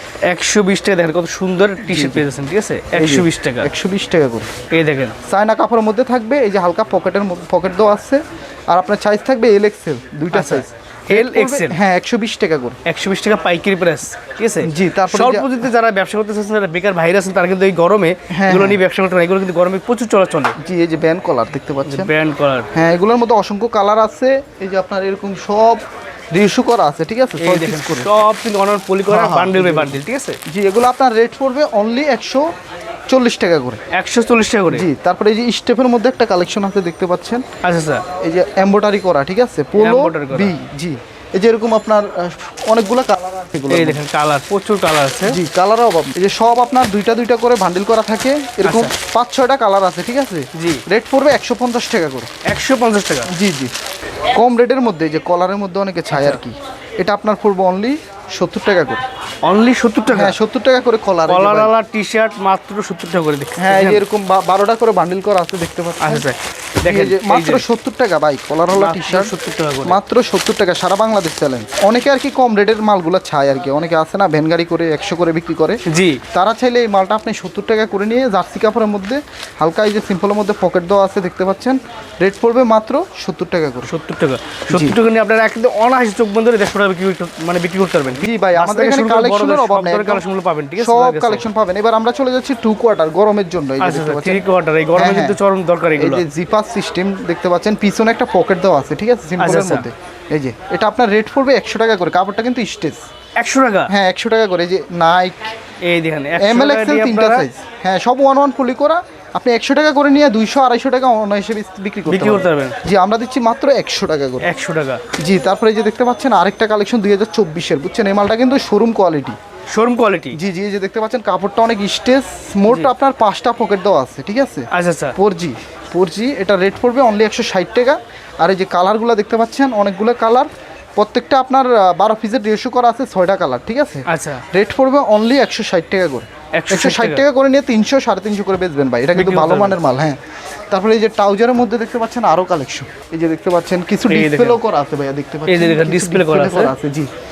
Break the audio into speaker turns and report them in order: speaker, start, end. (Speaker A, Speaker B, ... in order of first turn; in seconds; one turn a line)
Speaker A: 0.3-3.7
Speaker B: 1.8-2.2
Speaker B: 2.9-4.5
Speaker A: 4.7-5.2
Speaker B: 5.3-12.8
Speaker A: 10.3-11.8
Speaker A: 12.9-20.6
Speaker B: 14.6-15.7
Speaker B: 18.3-18.8
Speaker B: 20.6-22.1
Speaker A: 21.9-22.7
Speaker B: 22.7-28.1
Speaker A: 27.4-30.4
Speaker B: 29.1-32.5
Speaker B: 33.1-33.8
Speaker A: 33.9-34.9
Speaker B: 34.7-37.4
Speaker A: 37.6-38.0
Speaker B: 38.2-44.0
Speaker A: 39.8-40.5
Speaker A: 43.7-45.4
Speaker B: 45.3-52.3
Speaker A: 48.6-48.9
Speaker A: 50.5-50.8
Speaker A: 52.5-53.3
Speaker B: 53.3-53.7
Speaker B: 54.4-59.0
Speaker A: 56.1-56.4
Speaker A: 59.5-60.4
Speaker B: 60.1-61.7
Speaker A: 61.3-64.0
Speaker B: 63.6-66.3
Speaker A: 66.0-67.6
Speaker B: 66.8-75.8
Speaker A: 68.7-70.0
Speaker A: 75.9-76.2
Speaker B: 76.3-83.9
Speaker A: 83.9-91.5
Speaker B: 84.7-85.0
Speaker B: 88.2-90.2
Speaker B: 90.8-94.4
Speaker A: 93.8-96.2
Speaker B: 95.0-95.4
Speaker B: 96.0-103.0
Speaker A: 99.4-99.9
Speaker A: 103.4-103.9
Speaker B: 103.9-105.5
Speaker A: 105.8-107.5
Speaker B: 106.4-114.5
Speaker A: 112.1-112.8
Speaker A: 114.4-115.0
Speaker B: 115.2-119.4
Speaker A: 119.7-120.4
Speaker B: 120.3-140.2
Speaker A: 124.7-125.2
Speaker A: 134.1-134.4
Speaker A: 136.6-137.2
Speaker A: 139.1-139.8
Speaker B: 140.7-147.1
Speaker A: 144.1-144.6
Speaker A: 145.5-146.7